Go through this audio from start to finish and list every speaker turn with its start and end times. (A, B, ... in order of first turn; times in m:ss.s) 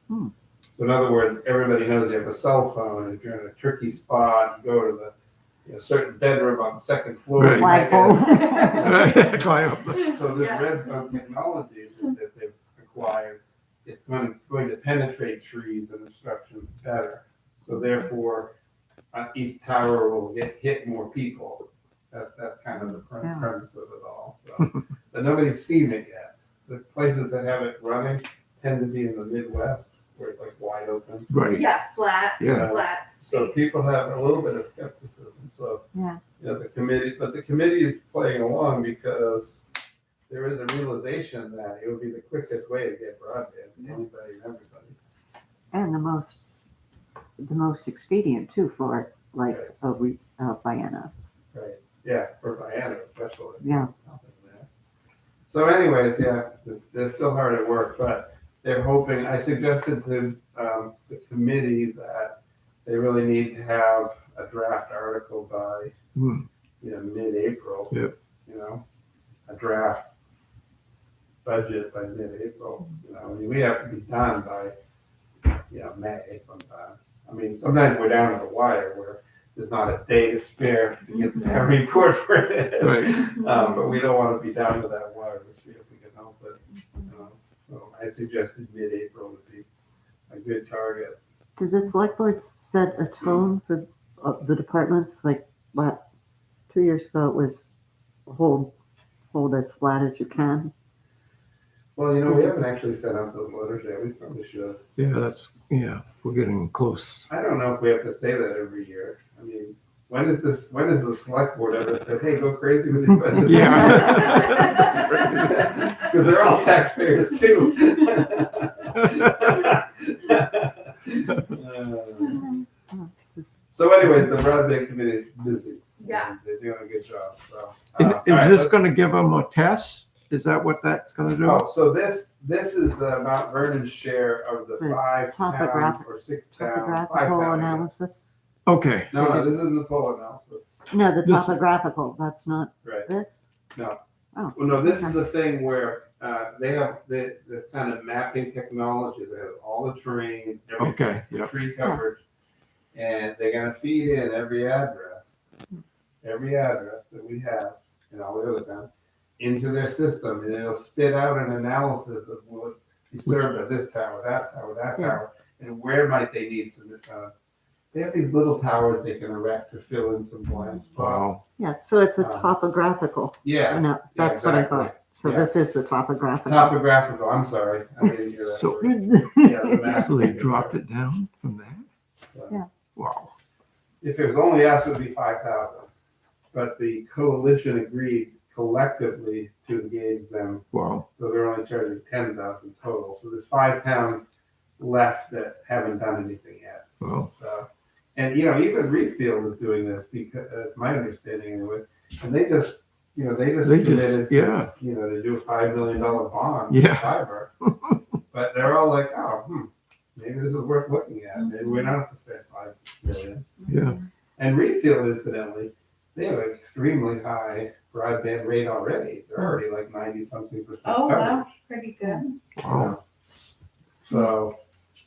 0:00.8-0:05.1 A
0:05.7-0:18.5 A
0:07.4-0:07.8 B
0:07.4-0:09.0 C
0:08.4-0:09.1 D
0:08.8-0:10.2 B
0:10.2-0:11.1 D
0:19.1-0:31.3 A
0:23.2-0:23.5 C
0:31.3-0:31.7 B
0:31.5-0:33.6 D
0:32.4-0:32.7 B
0:32.4-0:35.8 A
0:35.9-0:36.2 C
0:36.4-0:39.6 A
0:40.3-0:45.0 A
0:45.7-0:46.4 C
0:47.4-0:51.2 C
0:51.5-0:54.7 A
0:53.6-0:53.9 C
0:55.5-1:05.9 A
1:06.2-1:06.5 B
1:06.8-1:08.8 A
1:09.5-1:10.0 A
1:11.4-1:14.7 A
1:15.7-1:29.7 A
1:21.2-1:21.7 D
1:22.8-1:23.1 B
1:23.4-1:24.0 D
1:26.8-1:27.1 D
1:30.3-1:31.2 A
1:31.6-1:36.1 C
1:36.7-1:37.7 C
1:38.3-1:38.7 C
1:39.3-1:40.7 C
1:42.0-1:44.8 A
1:42.3-1:42.6 C
1:45.0-1:47.3 B
1:47.3-2:02.4 A
1:53.4-1:55.8 B
1:53.4-1:54.0 C
1:54.0-1:54.7 D
2:02.3-2:03.6 C
2:03.7-2:08.8 A
2:06.0-2:06.4 D
2:08.0-2:11.6 B
2:11.4-2:17.9 A
2:14.8-2:18.4 C
2:18.7-2:19.1 B
2:19.1-2:20.6 A
2:19.2-2:19.6 C
2:20.9-2:23.4 C
2:21.2-2:21.5 B
2:22.8-2:23.1 A
2:24.3-2:25.2 C
2:24.5-2:32.2 A
2:30.8-2:31.5 B
2:32.9-2:35.4 A
2:36.2-2:47.3 A
2:47.9-2:51.3 A
2:51.0-2:51.4 B
2:51.6-2:56.8 C
2:52.2-2:52.5 A
2:53.4-2:55.6 A
2:56.5-3:00.8 A
2:58.4-2:58.8 B
2:58.7-3:00.4 C
2:59.8-3:01.9 B
3:02.3-3:02.6 A
3:03.0-3:03.3 B
3:04.0-3:05.9 A
3:06.5-3:14.3 A
3:10.7-3:11.1 B
3:14.8-3:27.5 A
3:17.0-3:17.3 B
3:23.6-3:24.7 B
3:26.7-3:28.0 B
3:28.3-3:33.5 A
3:31.4-3:32.0 D
3:33.7-3:34.0 B
3:34.4-3:41.5 A
3:40.8-3:42.4 D
3:42.6-3:42.9 B
3:42.7-3:43.0 A
3:44.0-3:44.6 A